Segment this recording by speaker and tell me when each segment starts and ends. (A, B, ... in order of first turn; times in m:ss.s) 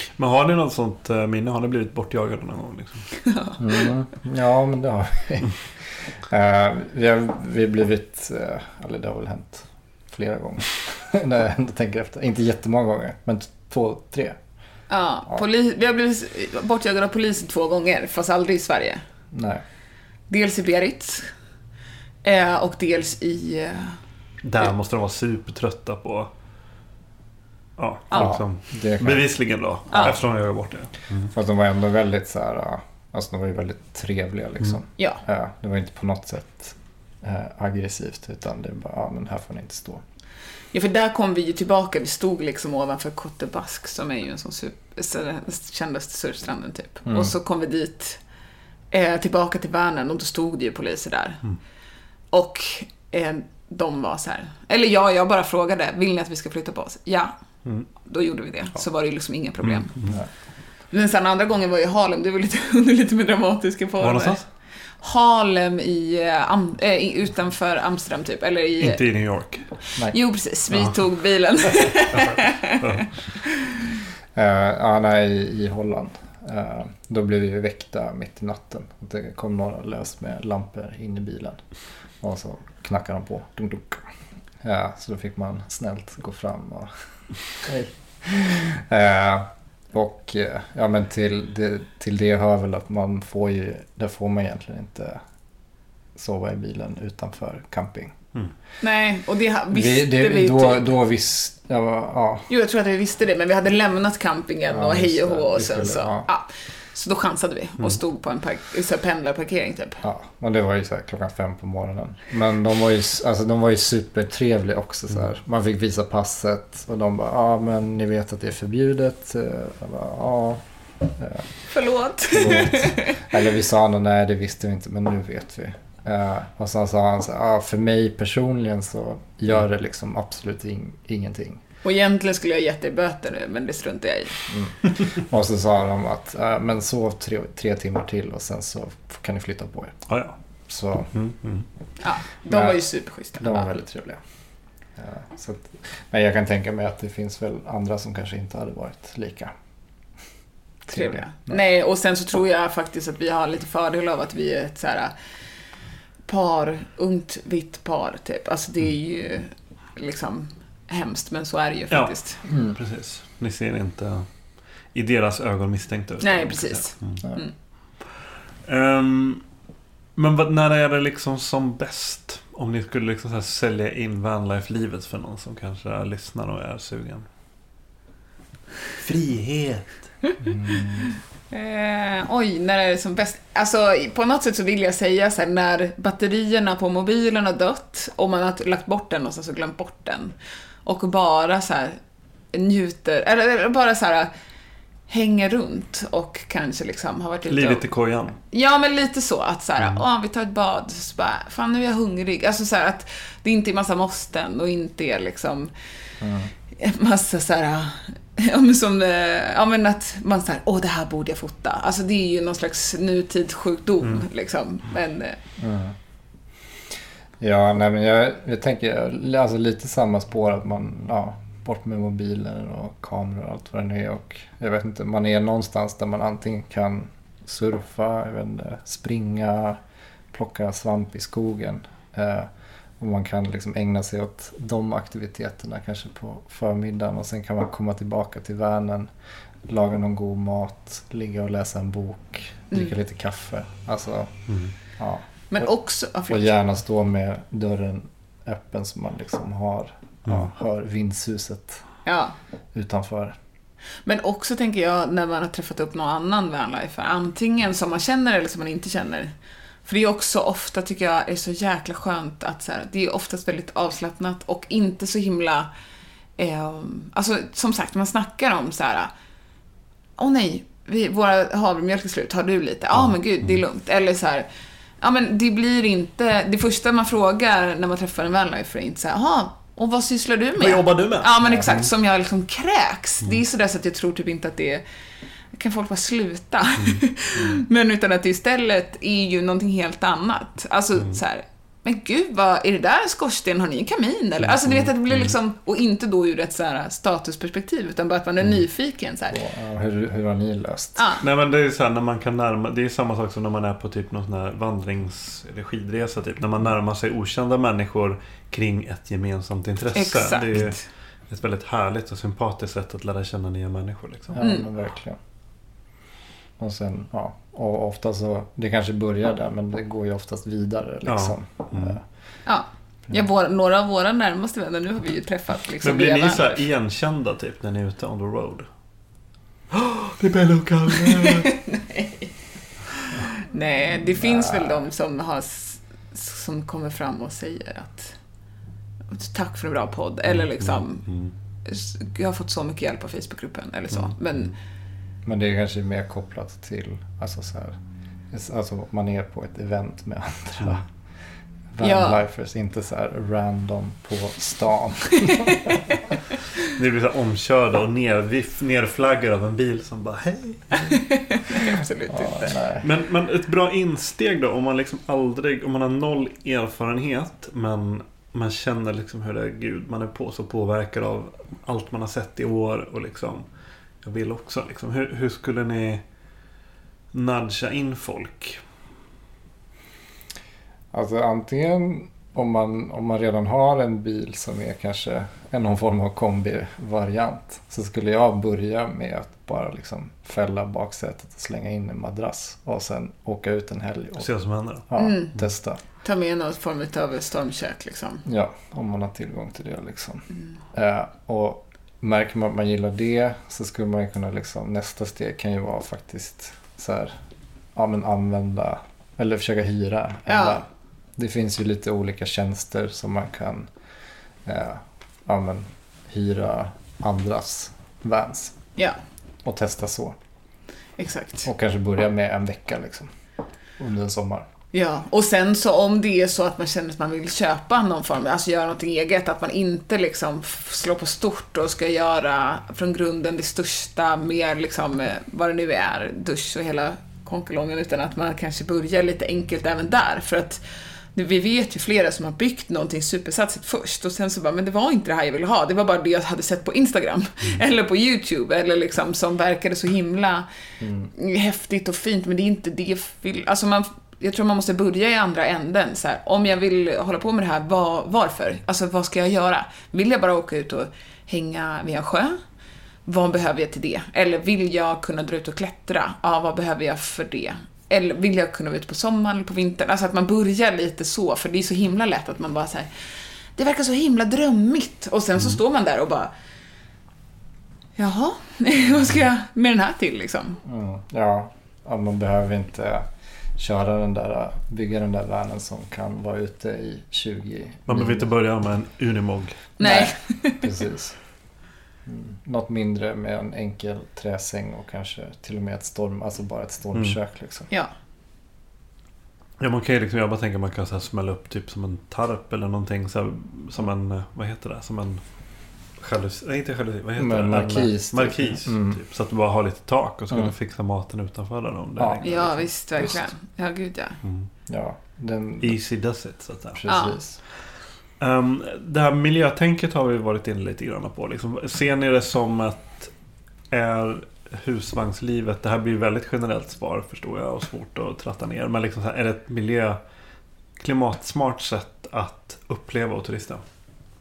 0:00.2-0:03.1 A
0:03.2-0:03.9 B
0:03.6-0:05.6 C
0:06.3-0:14.4 C
0:14.9-0:19.0 B
0:19.3-0:19.6 C
0:20.3-0:21.3 B
0:22.2-0:24.0 B
0:24.4-0:26.3 A
0:27.8-0:31.3 A
0:28.1-0:29.3 C
0:31.3-0:40.0 C
0:40.7-0:48.2 B
0:47.0-0:47.3 C
0:48.9-0:51.4 B
0:52.3-0:57.3 B
0:58.0-1:00.0 B
0:59.6-1:00.2 A
1:00.9-1:04.4 B
1:04.0-1:04.5 A
1:05.0-1:09.0 B
1:08.8-1:09.8 A
1:10.1-1:13.0 B
1:10.7-1:11.0 A
1:12.1-1:13.1 A
1:14.4-1:21.7 C
1:22.2-1:24.1 C
1:24.6-1:26.9 C
1:27.6-1:35.2 C
1:36.2-1:38.2 C
1:38.8-1:40.9 B
1:39.7-1:42.5 C
1:42.5-1:50.0 B
1:44.7-1:46.3 C
1:50.0-2:01.5 C
2:01.7-2:03.2 B
2:02.3-2:11.6 C
2:11.8-2:14.4 B
2:14.5-2:20.1 C
2:20.1-2:20.4 A
2:20.7-2:21.1 C
2:21.1-2:21.7 A
2:22.0-2:23.7 B
2:22.5-2:22.8 C
2:23.3-2:24.2 C
2:25.0-2:29.5 C
2:30.9-2:31.6 C
2:30.9-2:35.1 B
2:36.3-2:42.4 B
2:41.9-2:44.3 A
2:42.5-2:42.8 C
2:44.9-2:47.2 A
2:46.2-2:47.5 B
2:48.7-2:49.4 A
2:50.2-2:57.3 A
2:59.0-3:00.0 A
3:00.4-3:01.1 C
3:01.5-3:12.0 B
3:12.5-3:14.3 B
3:15.1-3:17.9 B
3:17.5-3:18.4 A
3:18.5-3:25.7 B
3:26.2-3:26.5 C
3:26.8-3:35.4 B
3:35.6-3:36.0 C
3:37.4-3:49.8 C
3:50.3-3:59.1 C
3:59.7-4:04.4 C
4:04.5-4:04.7 A
4:05.0-4:05.7 C
4:05.5-4:06.5 B
4:06.3-4:11.8 C
4:12.1-4:12.4 B
4:12.7-4:13.4 C
4:14.0-4:19.3 B
4:19.9-4:25.7 B
4:26.4-4:29.1 B
4:30.2-4:34.5 B
4:35.0-4:44.8 B
4:40.6-4:41.9 A
4:41.4-4:41.8 C
4:45.5-4:59.4 B
4:47.4-4:47.6 C
4:54.7-4:55.4 A
4:59.3-5:01.0 C
5:01.0-5:01.2 B
5:01.2-5:10.8 A
5:10.0-5:10.8 B
5:11.3-5:14.4 A
5:14.3-5:15.2 C
5:14.4-5:14.7 B
5:16.6-5:22.0 C
5:21.1-5:22.0 A
5:22.5-5:26.6 B
5:25.8-5:28.7 A
5:29.7-5:31.6 A
5:31.1-5:32.3 B
5:33.3-5:38.2 B
5:34.1-5:34.9 C
5:39.1-5:41.1 B
5:40.3-5:41.3 A
5:41.6-5:44.5 B
5:43.9-5:44.5 A
5:45.2-5:47.8 C
5:48.3-5:50.9 C
5:51.7-5:55.6 C
5:51.8-5:52.2 B
5:55.4-5:55.7 B
5:56.8-6:01.0 A
6:00.7-6:02.6 B
6:02.1-6:02.9 C
6:02.8-6:13.4 A
6:14.0-6:16.0 A
6:17.1-6:18.6 A
6:20.9-6:34.3 C
6:34.2-6:34.8 A
6:34.9-6:35.8 C
6:35.0-6:35.3 B
6:36.0-6:38.2 B
6:38.2-6:47.2 C
6:47.8-6:53.7 C
6:50.3-6:50.6 B
6:54.4-6:58.6 C
6:59.4-7:00.2 C
7:01.0-7:01.5 B
7:01.4-7:03.1 C
7:03.8-7:04.5 C
7:04.7-7:20.6 B
7:21.2-7:30.5 B
7:30.8-7:31.1 C
7:31.1-7:42.4 B
7:43.1-7:52.9 B
7:53.6-7:56.3 B
7:58.0-8:00.6 B
8:00.6-8:08.3 C
8:07.9-8:09.7 A
8:09.8-8:10.6 B
8:09.8-8:11.2 C
8:12.1-8:17.7 C
8:19.6-8:25.2 A
8:26.0-8:33.2 A
8:27.2-8:29.0 C
8:32.2-8:34.2 B
8:34.2-8:34.5 A
8:34.7-8:35.8 C
8:35.6-8:36.8 A
8:36.8-8:37.4 C
8:36.9-8:37.2 B
8:38.2-8:43.1 A
8:43.7-8:50.0 A
8:50.8-8:53.6 A